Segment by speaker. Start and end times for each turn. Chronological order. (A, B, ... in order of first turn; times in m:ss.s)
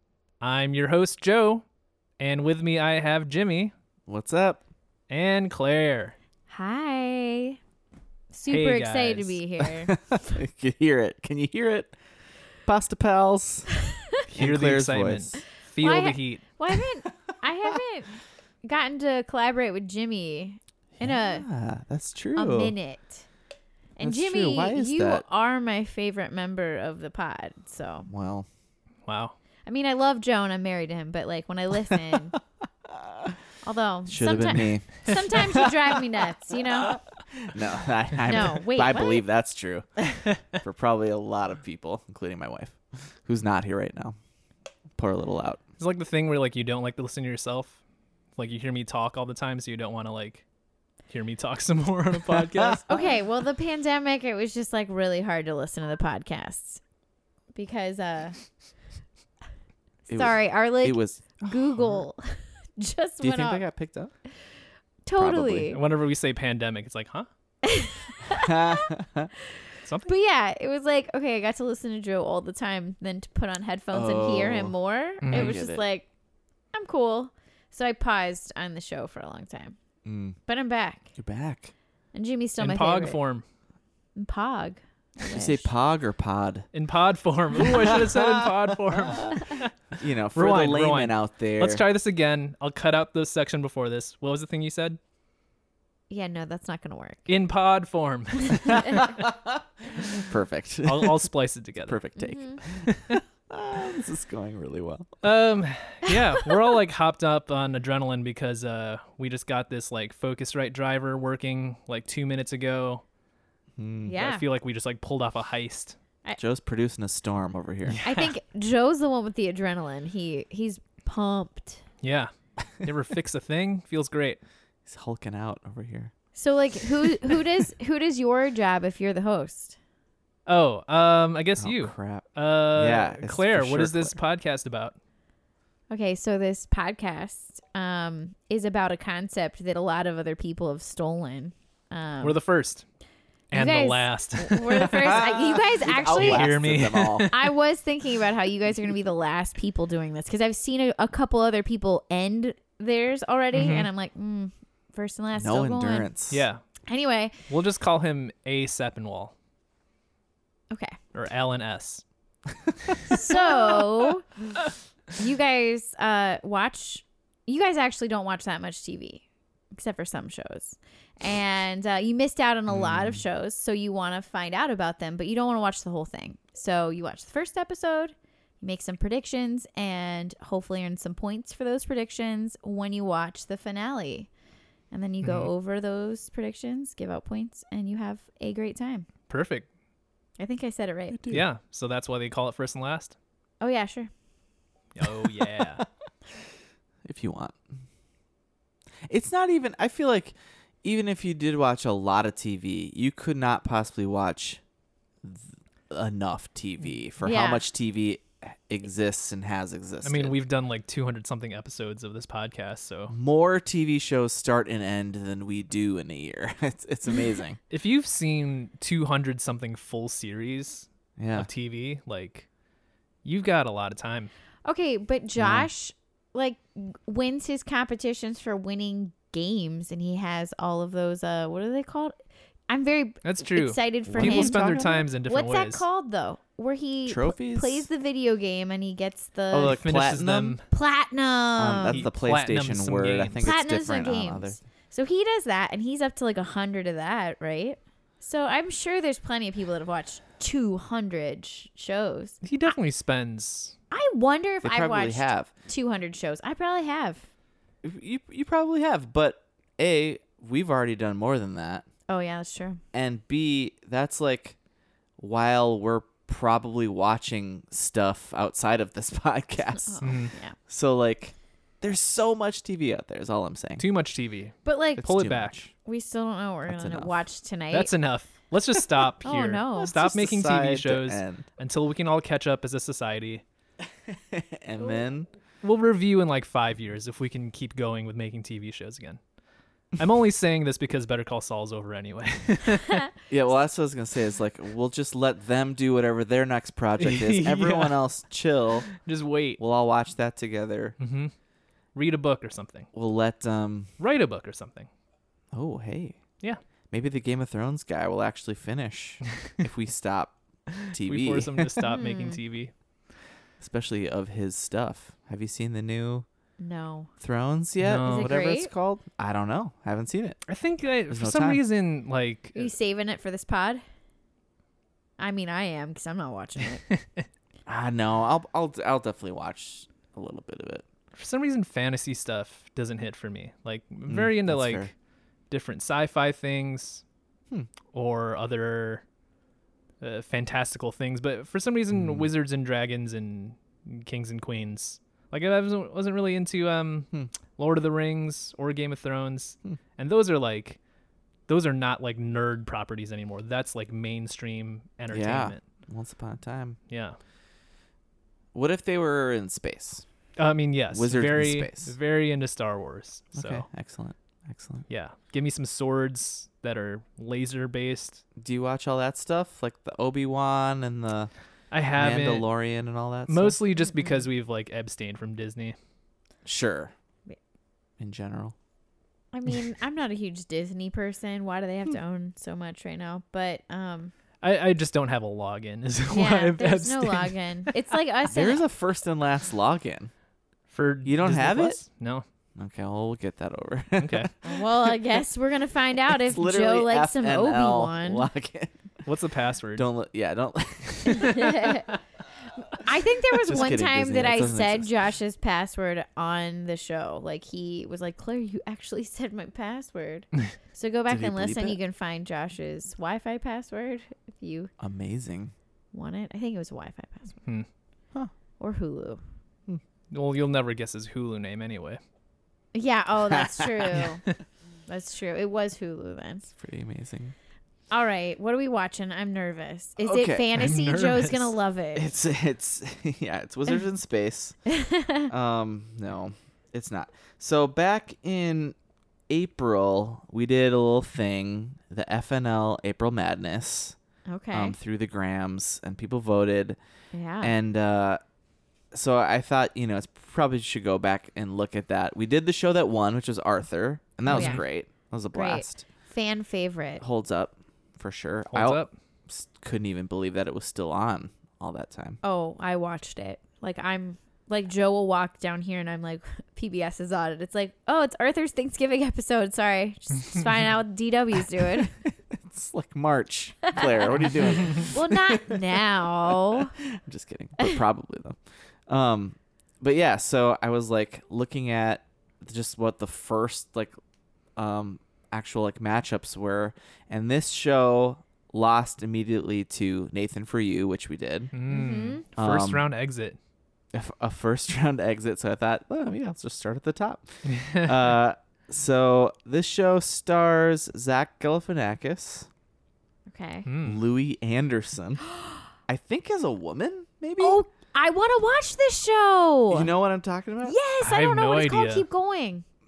0:00.4-0:01.6 A
0:02.2-0:03.7 A
0:04.1-0:04.6 B
0:05.1-0:06.2 A
0:06.5-0:07.6 C
0:08.3-0:09.9 C
0:08.5-0:09.4 A
0:09.8-0:12.0 B
0:12.6-0:13.7 B
0:14.3-0:16.4 A
0:14.3-0:15.3 B
0:15.8-0:21.4 C
0:21.0-0:22.7 B
0:22.4-0:23.3 C
0:24.0-0:28.1 C
0:24.0-0:25.2 B
0:28.1-0:28.5 B
0:29.0-0:29.3 A
0:29.6-0:32.3 C
0:32.9-0:33.3 B
0:33.6-0:37.0 C
0:34.1-0:39.9 B
0:38.2-0:39.2 C
0:40.4-0:44.2 B
0:45.0-0:45.6 B
0:45.8-0:47.8 A
0:48.4-0:50.4 A
0:51.1-0:52.9 A
0:52.4-0:53.0 B
0:52.9-0:56.8 C
0:57.5-0:58.4 C
1:00.1-1:03.7 C
1:00.1-1:02.0 B
1:03.2-1:04.1 B
1:05.0-1:05.8 C
1:05.2-1:05.7 B
1:05.7-1:07.3 A
1:07.6-1:08.8 C
1:08.2-1:09.3 B
1:09.8-1:10.1 A
1:10.1-1:16.1 C
1:13.9-1:14.8 B
1:15.2-1:15.6 A
1:15.3-1:15.8 B
1:16.7-1:19.8 C
1:20.0-1:20.4 B
1:20.4-1:21.1 C
1:21.1-1:21.7 B
1:22.1-1:23.2 C
1:22.6-1:23.4 A
1:24.2-1:25.7 C
1:25.3-1:26.7 B
1:26.7-1:29.7 A
1:27.5-1:31.8 B
1:30.3-1:35.0 A
1:36.1-1:37.3 C
1:37.3-1:39.1 A
1:38.5-1:38.8 C
1:38.7-1:41.3 B
1:40.8-1:42.0 A
1:41.8-1:45.1 B
1:42.2-1:42.6 C
1:42.8-1:43.1 A
1:45.2-1:53.0 A
1:53.8-1:54.1 B
1:54.0-1:54.4 C
1:54.1-1:56.0 A
1:56.4-1:58.0 B
1:57.8-1:58.3 A
1:58.0-2:01.8 C
2:02.0-2:04.4 A
2:04.8-2:06.1 B
2:06.3-2:09.8 C
2:10.4-2:14.9 A
2:11.6-2:14.2 B
2:15.9-2:22.4 C
2:22.2-2:22.8 A
2:23.5-2:25.2 A
2:23.5-2:26.5 C
2:24.8-2:27.3 B
2:25.9-2:27.5 A
2:27.3-2:36.1 C
2:33.5-2:33.9 A
2:35.4-2:36.4 B
2:36.3-2:36.6 A
2:36.8-2:37.4 C
2:37.5-2:39.3 A
2:40.7-2:41.0 C
2:41.1-2:42.0 A
2:43.1-2:44.3 C
2:45.1-3:04.3 C
2:52.7-2:53.2 B
3:04.9-3:09.1 C
3:05.2-3:05.5 A
3:09.3-3:09.7 A
3:10.4-3:11.2 C
3:11.1-3:11.4 B
3:11.3-3:13.1 A
3:13.6-3:14.1 C
3:14.9-3:15.8 A
3:17.0-3:17.6 B
3:19.1-3:24.6 B
3:25.2-3:30.3 B
3:27.2-3:27.6 C
3:30.0-3:33.1 A
3:33.1-3:37.6 B
3:37.7-3:42.5 A
3:41.2-3:41.5 B
3:43.2-3:44.3 A
3:44.6-3:52.1 C
3:45.4-3:45.7 B
3:52.7-3:59.8 C
3:53.2-3:55.8 A
3:54.1-3:55.0 B
3:57.0-3:57.9 B
3:59.5-4:00.6 B
3:59.6-4:00.6 A
4:00.7-4:02.0 C
4:01.6-4:04.6 B
4:01.9-4:03.4 A
4:03.4-4:12.7 C
4:12.4-4:13.7 A
4:13.9-4:17.3 C
4:14.6-4:15.5 B
4:17.8-4:21.8 B
4:22.1-4:22.8 C
4:22.9-4:24.6 B
4:25.2-4:33.8 B
4:29.7-4:30.6 C
4:30.0-4:30.3 A
4:33.8-4:35.7 A
4:34.6-4:35.0 C
4:35.0-4:35.7 B
4:35.8-4:37.9 C
4:36.7-4:37.2 B
4:37.7-4:43.4 A
4:39.2-4:39.9 C
4:39.9-4:41.4 B
4:44.1-4:45.3 B
4:45.6-4:49.2 A
4:49.9-4:53.0 A
4:53.3-4:58.9 B
4:57.0-4:58.0 A
4:58.9-4:59.6 A
4:59.6-5:01.0 B
5:01.0-5:01.3 A
5:01.9-5:02.9 A
5:02.9-5:03.9 B
5:04.0-5:04.9 A
5:05.5-5:06.2 B
5:06.9-5:11.8 B
5:10.8-5:12.7 A
5:11.8-5:12.4 C
5:13.6-5:16.2 B
5:16.6-5:17.1 C
5:17.2-5:20.4 B
5:17.8-5:18.3 A
5:18.0-5:18.7 C
5:20.5-5:22.7 A
5:21.1-5:21.6 B
5:22.6-5:23.8 C
5:25.2-5:26.8 C
5:26.9-5:27.2 A
5:27.6-5:30.8 B
5:31.1-5:34.9 A
5:34.1-5:34.9 B
5:35.5-5:37.0 A
5:37.9-5:39.0 A
5:40.0-5:50.8 A
5:41.9-5:42.3 B
5:51.5-5:55.6 A
5:55.1-5:56.8 B
5:56.9-5:57.2 A
5:58.5-6:00.0 B
6:00.4-6:03.6 A
6:00.9-6:01.9 B
6:03.3-6:04.8 B
6:04.9-6:08.2 A
6:08.4-6:11.3 B
6:11.7-6:12.5 A
6:11.9-6:13.6 B
6:13.3-6:15.8 A
6:13.9-6:14.2 C
6:16.4-6:16.9 B
6:18.0-6:18.5 B
6:19.3-6:24.1 C
6:24.4-6:27.7 A
6:26.1-6:28.6 C
6:28.3-6:30.1 B
6:30.7-6:32.2 A
6:31.0-6:31.8 B
6:32.6-6:35.2 B
6:34.0-6:34.3 A
6:34.4-6:38.3 C
6:36.1-6:38.7 B
6:39.0-6:39.9 A
6:39.8-6:41.6 B
6:41.0-6:41.5 A
6:41.2-6:41.9 C
6:42.8-6:54.7 C
6:43.3-6:44.9 B
6:51.1-6:51.8 B
6:54.8-6:55.5 B
6:55.9-6:57.4 C
6:58.6-6:59.2 C
7:00.1-7:02.0 A
7:02.7-7:04.2 C
7:03.3-7:04.0 B
7:04.9-7:06.5 C
7:06.6-7:07.3 B
7:07.9-7:12.1 C
7:10.0-7:10.5 B
7:10.5-7:11.5 A
7:11.9-7:14.6 B
7:14.7-7:15.3 C
7:15.3-7:18.7 B
7:19.3-7:24.0 B
7:24.3-7:24.8 C
7:24.5-7:26.8 B
7:27.1-7:27.5 C
7:27.4-7:28.2 B
7:28.9-7:35.8 B
7:34.3-7:34.6 A
7:34.3-7:34.6 C
7:35.3-7:37.0 C
7:37.0-7:42.2 B
7:38.5-7:38.9 A
7:42.2-7:51.9 C
7:51.8-8:03.9 B
7:53.7-7:56.7 C
8:04.6-8:11.5 B
8:11.5-8:13.4 A
8:11.7-8:12.2 C
8:12.4-8:12.8 B
8:13.9-8:22.5 B
8:17.4-8:18.0 A
8:23.3-8:23.7 C
8:23.6-8:24.0 A
8:23.8-8:25.2 B
8:25.9-8:27.6 B
8:27.4-8:29.9 C
8:29.7-8:30.8 B
8:30.6-8:32.6 C
8:31.0-8:32.0 A